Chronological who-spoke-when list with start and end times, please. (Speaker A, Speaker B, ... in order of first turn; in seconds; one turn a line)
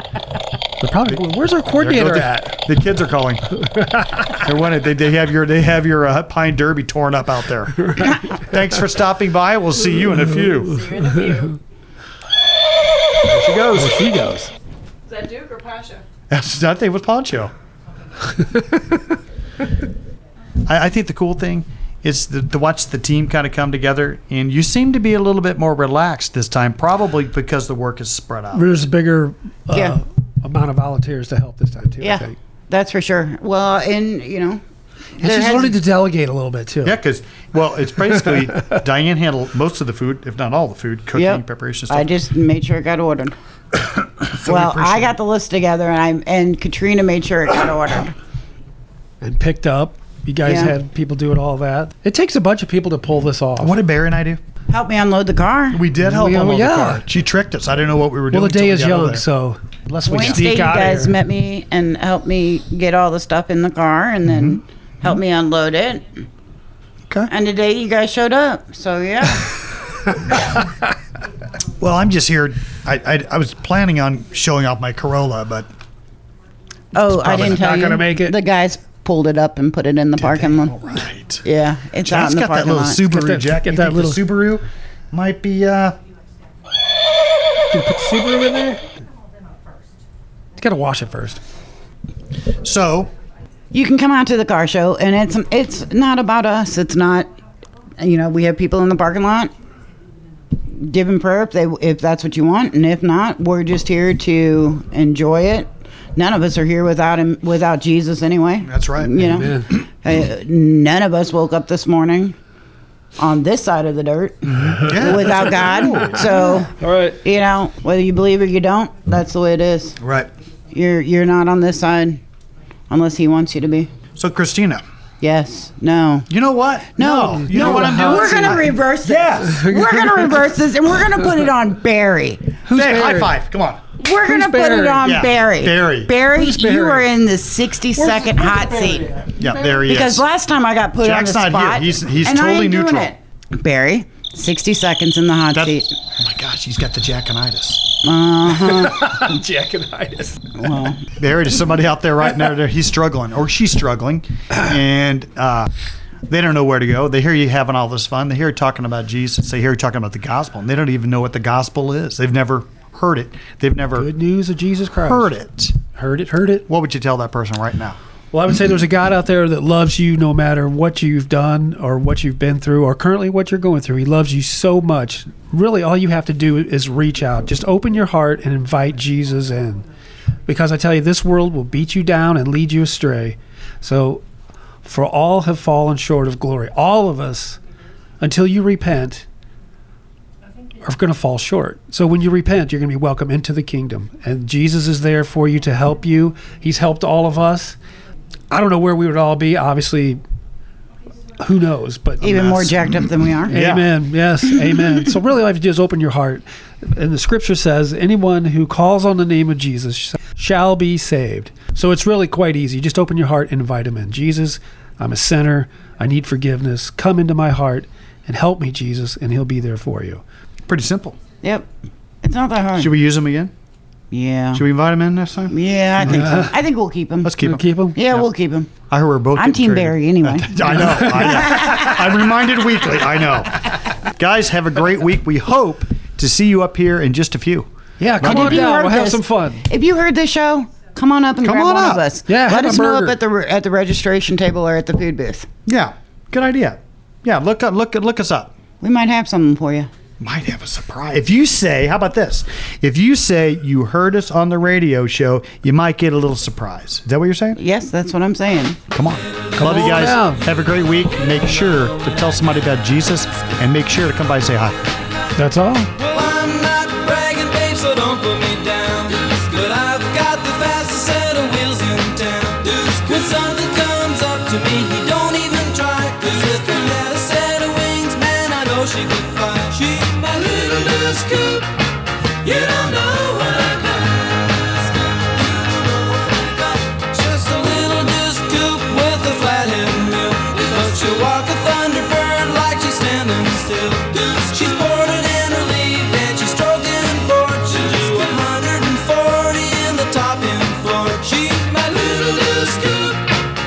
Speaker A: 0.8-2.6
Speaker B: 1.1-3.6
Speaker A: 3.6-4.4
Speaker B: 4.3-10.8
Speaker A: 7.8-8.2
Speaker C: 10.6-11.6
Speaker B: 13.2-14.1
Speaker A: 13.8-14.5
Speaker C: 15.1-16.0
Speaker B: 16.3-17.5
Speaker A: 18.4-18.8
Speaker B: 20.7-28.9
Speaker A: 28.5-32.4
Speaker D: 29.7-30.0
Speaker D: 32.0-34.6
Speaker D: 35.2-35.8
Speaker A: 35.2-37.0
Speaker B: 36.8-42.1
Speaker A: 38.2-38.8
Speaker D: 41.1-43.4
Speaker B: 43.8-45.2
Speaker D: 44.4-48.1
Speaker A: 49.2-53.8
Speaker D: 50.5-50.8
Speaker B: 53.6-54.4
Speaker D: 54.7-55.8
Speaker B: 55.7-59.2
Speaker A: 56.0-57.0
Speaker A: 58.3-61.2
Speaker D: 60.0-66.2
Speaker D: 67.3-69.5
Speaker B: 71.8-75.7
Speaker D: 76.9-80.8
Speaker B: 77.2-77.7
Speaker A: 77.2-78.4
Speaker B: 80.2-81.4
Speaker D: 81.4-83.0
Speaker B: 82.0-86.0
Speaker A: 83.1-84.2
Speaker A: 87.7-88.8
Speaker A: 90.6-91.4
Speaker B: 92.6-93.1
Speaker D: 93.7-97.3
Speaker D: 98.0-99.5
Speaker D: 100.7-112.4
Speaker B: 108.6-109.5
Speaker A: 109.2-109.7
Speaker D: 113.2-120.0
Speaker B: 114.5-116.5
Speaker A: 114.8-115.1
Speaker A: 116.8-117.2
Speaker B: 120.0-120.3
Speaker D: 120.7-122.2
Speaker D: 122.9-123.9
Speaker B: 124.2-124.8
Speaker D: 125.2-126.3
Speaker B: 126.3-129.7
Speaker D: 127.0-132.6
Speaker A: 127.4-128.7
Speaker A: 129.6-130.3
Speaker B: 132.7-133.8
Speaker A: 132.7-133.3
Speaker D: 134.0-139.2
Speaker A: 134.1-135.2
Speaker B: 135.0-136.1
Speaker A: 136.3-137.1
Speaker A: 137.9-139.8
Speaker B: 139.4-140.3
Speaker D: 139.8-145.9
Speaker B: 141.0-143.1
Speaker B: 145.5-147.9
Speaker D: 148.0-149.4
Speaker A: 148.5-150.4
Speaker D: 150.6-151.0
Speaker B: 151.2-155.7
Speaker B: 156.3-164.1
Speaker A: 164.0-165.3
Speaker B: 165.0-165.8
Speaker A: 165.8-166.7
Speaker B: 166.7-168.0
Speaker A: 168.3-179.9
Speaker A: 180.5-184.2
Speaker A: 184.8-187.6
Speaker A: 188.2-189.3
Speaker A: 190.8-197.8
Speaker A: 198.5-200.2
Speaker A: 201.4-202.9
Speaker D: 202.2-203.6
Speaker A: 203.5-220.2
Speaker B: 203.5-204.0
Speaker B: 220.7-221.2
Speaker D: 221.4-221.7
Speaker D: 222.2-223.0
Speaker B: 222.8-223.5
Speaker D: 224.1-224.7
Speaker B: 224.5-225.6
Speaker D: 225.5-228.7
Speaker A: 226.0-226.6
Speaker B: 226.1-226.4
Speaker B: 227.2-228.2
Speaker A: 227.4-228.1
Speaker B: 228.9-238.7
Speaker D: 229.3-232.1
Speaker A: 238.0-239.7
Speaker D: 238.2-245.5
Speaker B: 241.4-242.1
Speaker A: 242.3-243.2
Speaker B: 245.7-248.6
Speaker D: 248.8-249.9
Speaker B: 250.2-257.6
Speaker D: 257.6-258.8
Speaker B: 258.9-264.8
Speaker E: 259.2-260.2
Speaker A: 259.6-260.4
Speaker A: 265.4-265.9
Speaker E: 266.0-281.9
Speaker E: 282.4-303.4